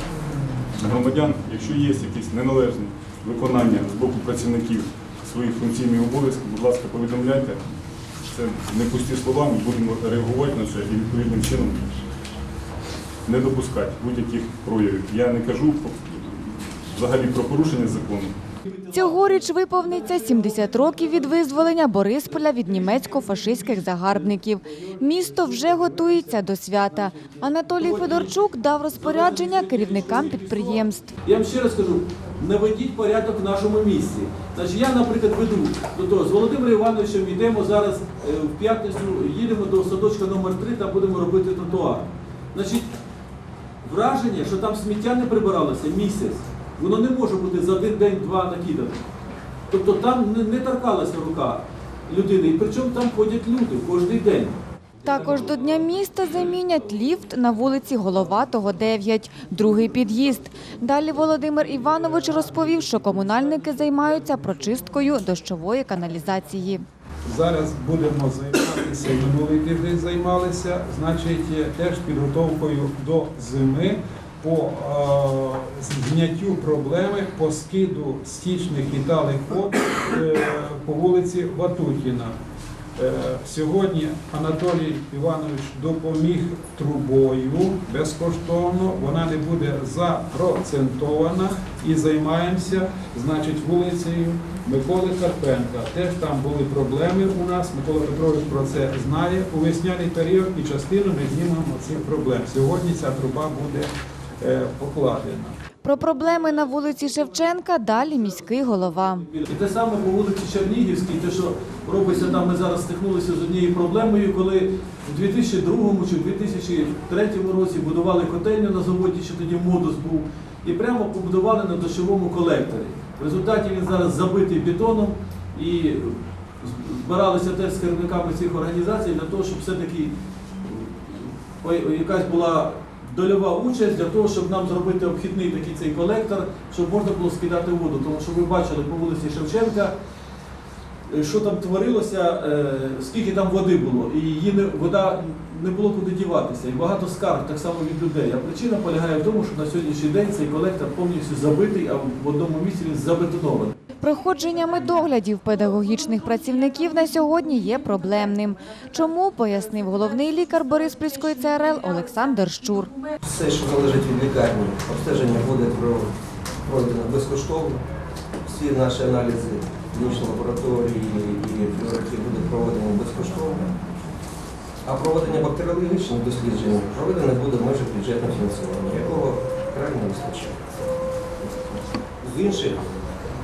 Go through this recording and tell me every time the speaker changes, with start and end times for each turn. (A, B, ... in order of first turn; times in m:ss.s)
0:00.8-0:07.6 A
0:08.2-0:12.0 A
0:13.2-0:18.3 A
0:18.9-0:31.1 B
0:27.8-0:28.3 C
0:29.0-0:42.9 C
0:43.8-0:49.0 C
0:49.7-0:54.6 C
0:55.0-1:06.8 B
1:07.3-1:22.3 D
1:23.0-1:45.5 D
1:45.8-1:49.2 B
1:49.3-2:19.9 C
2:21.1-2:33.7 C
2:34.0-2:42.9 B
2:43.2-2:47.8 E
2:48.4-2:53.8 E
2:54.8-3:00.7 E
3:01.4-3:03.2 E